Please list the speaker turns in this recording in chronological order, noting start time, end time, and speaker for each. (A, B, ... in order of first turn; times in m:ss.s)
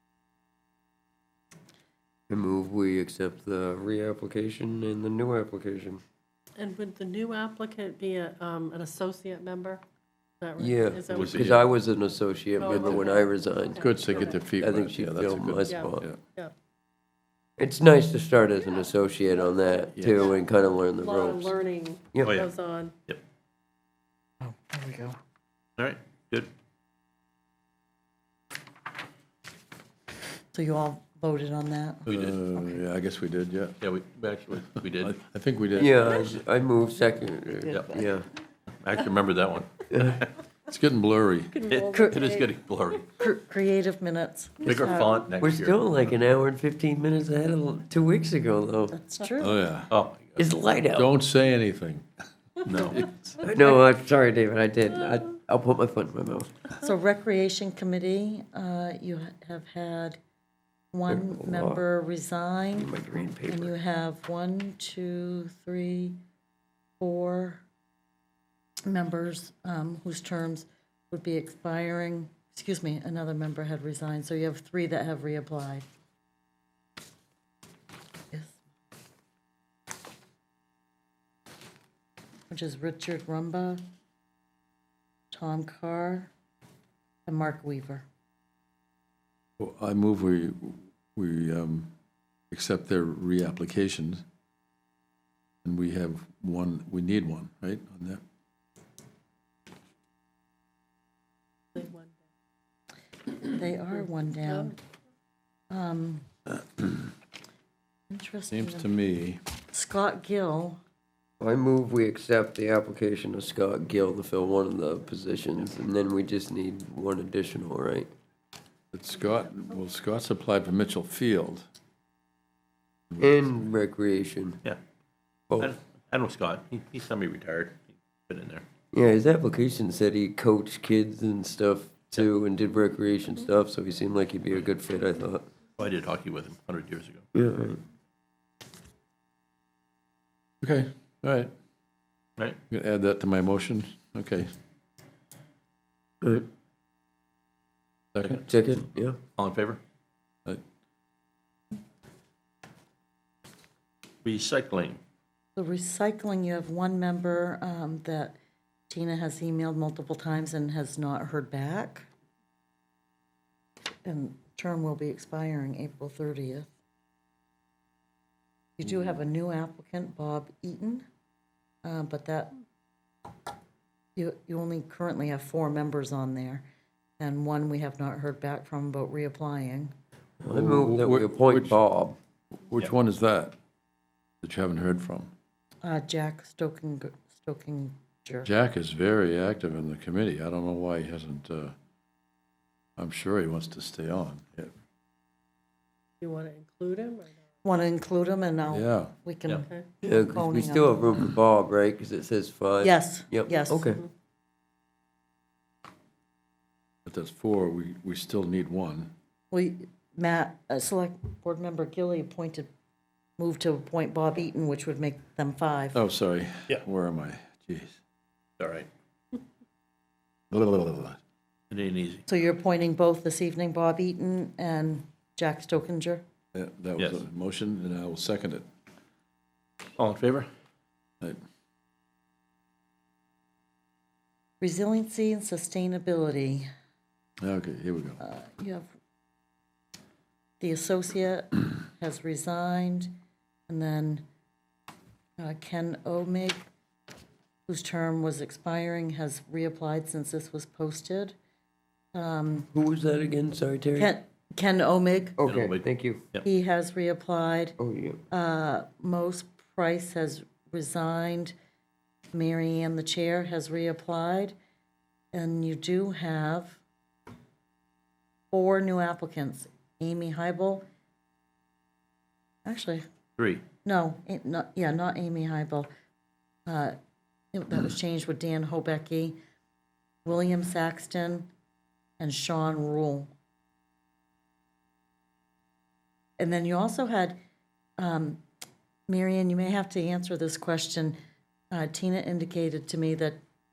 0:02.3-0:06.0 A
0:06.6-0:09.8 B
0:10.4-0:11.5 B
0:10.6-0:13.9 A
0:11.1-0:11.6 C
0:11.2-0:11.5 D
0:12.6-0:14.4 B
0:13.8-0:16.2 D
0:14.6-0:16.1 A
0:15.7-0:16.5 B
0:17.6-0:21.6 A
0:19.7-0:20.4 B
0:20.0-0:20.3 D
0:21.0-0:22.9 B
0:22.1-0:22.4 A
0:22.2-0:22.5 C
0:24.4-0:25.2 E
0:25.8-0:26.5 C
0:30.5-0:32.8 E
0:32.0-0:32.3 C
0:32.1-0:33.8 D
0:33.8-0:35.2 C
0:35.0-0:36.2 D
0:35.8-0:38.3 A
0:37.7-0:38.0 E
0:37.7-0:38.0 C
0:38.8-0:40.3 C
0:39.9-0:40.2 A
0:40.7-0:41.6 D
0:41.5-0:42.6 B
0:41.7-0:43.1 C
0:41.9-0:42.3 E
0:43.2-0:45.2 E
0:44.6-0:46.1 C
0:45.4-0:48.9 A
0:48.9-0:49.6 E
0:49.4-0:49.9 D
0:49.9-0:50.5 C
0:50.4-0:51.1 A
0:50.9-0:52.1 D
0:52.6-0:53.0 C
0:53.4-0:56.5 A
0:56.8-1:00.2 E
1:00.9-1:02.9 E
1:01.1-1:01.8 A
1:02.8-1:03.7 A
1:03.5-1:06.2 E
1:07.0-1:07.6 E
1:08.8-1:15.8 E
1:18.3-1:18.6 E
1:22.5-1:23.8 E
1:25.3-1:26.3 E
1:27.2-1:28.0 E
1:29.6-1:31.9 D
1:32.5-1:34.2 D
1:35.6-1:38.2 D
1:41.8-1:42.1 B
1:43.4-1:44.8 E
1:44.4-1:44.7 B
1:45.7-1:46.3 E
1:48.1-1:48.9 E
1:48.5-1:49.4 D
1:49.7-1:50.8 E
1:51.4-1:58.1 A
1:58.9-2:01.6 D
2:03.1-2:03.5 D
2:03.2-2:04.6 A
2:05.5-2:05.8 A
2:05.6-2:08.6 C
2:08.9-2:15.4 A
2:15.8-2:17.2 C
2:17.3-2:17.8 A
2:20.6-2:21.5 D
2:22.7-2:24.5 D
2:26.2-2:26.5 A
2:28.1-2:28.4 D
2:28.4-2:29.2 A
2:29.4-2:29.8 C
2:34.2-2:35.0 C
2:35.6-2:38.4 E
2:38.9-2:42.1 E
2:44.0-2:46.7 E
2:48.8-2:51.0 E
2:51.8-2:52.6 E
2:54.2-2:56.6 E
2:57.2-2:59.9 E
3:00.4-3:02.2 A
3:00.5-3:01.8 D
3:02.7-3:03.6 D
3:04.4-3:05.3 D
3:05.8-3:08.5 E
3:08.4-3:11.7 D
3:13.0-3:14.7 D
3:16.2-3:17.4 B
3:17.6-3:21.1 E
3:18.7-3:19.1 D
3:20.0-3:24.0 A
3:22.8-3:23.9 E
3:23.7-3:24.0 B
3:27.0-3:29.1 D
3:29.5-3:32.7 E
3:33.4-3:36.0 E
3:35.9-3:38.0 D
3:38.6-3:38.9 C
3:40.5-3:41.2 D
3:41.7-3:42.2 C
3:42.3-3:46.2 E
3:46.5-3:48.6 D
3:47.0-3:47.2 C
3:50.0-3:50.5 C
3:54.6-3:56.7 E
3:57.4-3:58.2 D
3:58.2-3:58.9 E
4:00.6-4:03.1 E
4:03.7-4:04.2 E
4:05.4-4:06.6 E
4:07.7-4:11.3 E
4:12.1-4:12.7 E
4:12.7-4:14.1 A
4:14.0-4:15.4 E
4:15.4-4:16.2 A
4:15.4-4:16.4 C
4:16.4-4:17.8 E
4:17.8-4:18.2 A
4:18.3-4:21.5 E
4:22.3-4:24.5 E
4:25.3-4:26.8 E
4:28.5-4:30.8 E
4:32.6-4:33.0 E
4:33.4-4:33.6 C
4:33.8-4:35.9 E
4:36.6-4:37.0 E
4:37.5-4:39.4 E
4:40.2-4:41.5 E
4:42.2-4:43.3 E
4:46.4-4:47.4 E
4:48.0-4:48.4 E
4:49.1-4:51.2 E
4:51.7-4:53.4 E